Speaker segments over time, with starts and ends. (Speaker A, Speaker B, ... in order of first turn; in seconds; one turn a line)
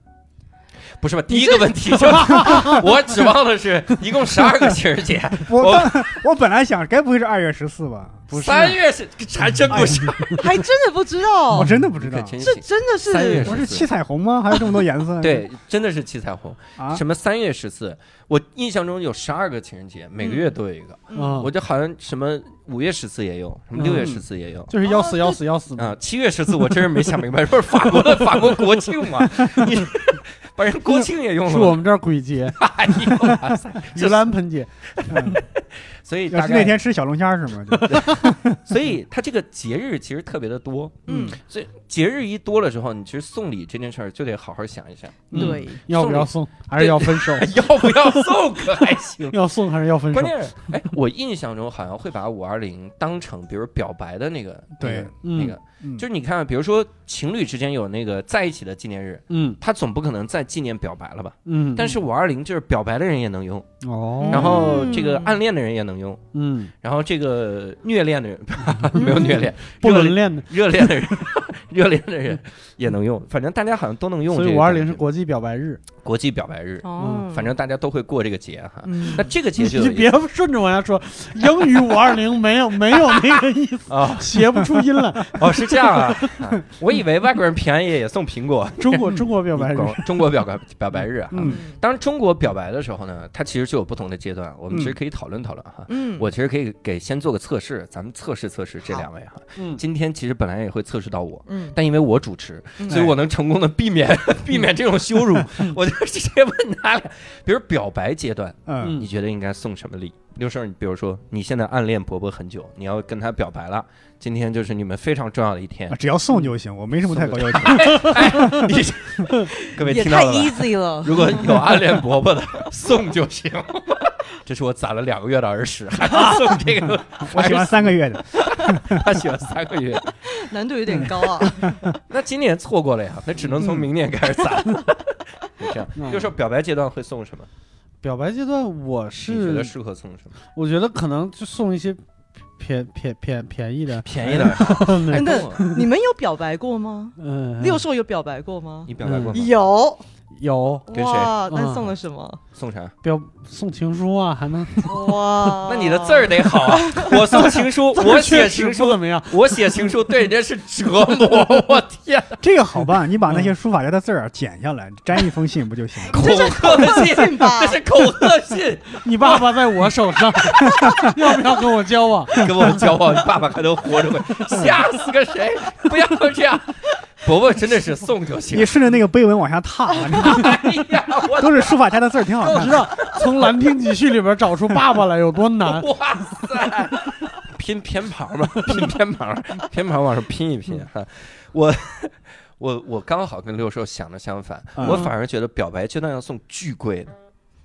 Speaker A: 1.0-6.2
Speaker B: 2.0-2.8
Speaker C: 2.3-2.8
Speaker C: 5.4-8.6
Speaker B: 8.3-8.8
Speaker A: 8.3-10.5
Speaker C: 9.7-10.2
Speaker D: 10.3-11.7
Speaker C: 11.5-12.4
Speaker A: 12.0-13.9
Speaker D: 12.4-13.6
Speaker C: 13.4-15.4
Speaker A: 15.2-24.7
Speaker C: 16.8-17.0
Speaker D: 20.2-20.5
Speaker D: 21.1-21.4
Speaker B: 21.1-21.5
Speaker B: 23.8-26.0
Speaker D: 24.8-25.4
Speaker A: 25.8-31.8
Speaker B: 26.6-27.1
Speaker B: 28.0-28.4
Speaker B: 31.5-32.6
Speaker A: 32.5-34.3
Speaker B: 33.9-34.7
Speaker A: 34.9-36.8
Speaker C: 35.1-35.4
Speaker C: 36.3-38.6
Speaker B: 37.7-38.0
Speaker A: 37.9-49.4
Speaker D: 41.1-41.4
Speaker B: 41.1-41.3
Speaker B: 45.3-48.3
Speaker D: 45.3-45.8
Speaker B: 49.3-50.3
Speaker A: 50.1-63.7
Speaker C: 54.8-55.1
Speaker B: 55.2-55.6
Speaker B: 59.3-59.6
Speaker B: 61.5-62.0
Speaker B: 63.8-64.8
Speaker D: 64.2-65.4
Speaker A: 64.3-66.2
Speaker B: 66.3-66.7
Speaker A: 66.8-75.1
Speaker B: 68.9-71.2
Speaker D: 69.0-69.4
Speaker B: 74.3-75.8
Speaker A: 76.0-80.1
Speaker D: 76.8-77.5
Speaker B: 77.0-77.3
Speaker D: 78.8-79.3
Speaker B: 79.6-86.3
Speaker A: 83.9-84.5
Speaker A: 85.3-116.0
Speaker B: 88.8-90.3
Speaker C: 91.3-91.6
Speaker D: 91.4-91.8
Speaker C: 94.7-95.0
Speaker D: 95.9-96.2
Speaker D: 101.5-101.8
Speaker D: 102.8-103.0
Speaker B: 102.9-103.1
Speaker C: 108.7-109.0
Speaker B: 108.8-109.1
Speaker C: 115.9-118.8
Speaker A: 117.1-130.2
Speaker D: 119.5-121.8
Speaker C: 127.2-129.2
Speaker D: 130.2-131.9
Speaker A: 132.1-137.5
Speaker C: 133.6-133.9
Speaker B: 135.9-136.3
Speaker B: 138.0-139.7
Speaker A: 139.3-140.3
Speaker B: 140.5-142.0
Speaker B: 142.6-145.9
Speaker A: 144.0-145.8
Speaker D: 145.1-150.0
Speaker B: 147.2-147.8
Speaker A: 148.9-149.5
Speaker B: 149.0-149.4
Speaker B: 150.4-150.9
Speaker D: 150.9-152.4
Speaker A: 150.9-151.3
Speaker B: 151.5-151.9
Speaker A: 152.5-152.9
Speaker B: 153.0-155.1
Speaker D: 154.9-157.2
Speaker A: 155.6-162.4
Speaker B: 157.3-159.9
Speaker C: 162.4-166.3
Speaker D: 166.1-167.8
Speaker A: 166.1-171.4
Speaker B: 169.0-173.0
Speaker A: 172.3-178.8
Speaker B: 174.3-174.9
Speaker C: 178.5-180.7
Speaker A: 180.1-181.8
Speaker C: 181.4-182.9
Speaker B: 182.4-185.9
Speaker A: 182.6-182.9
Speaker A: 185.6-197.1
Speaker C: 194.8-195.0
Speaker D: 194.8-195.1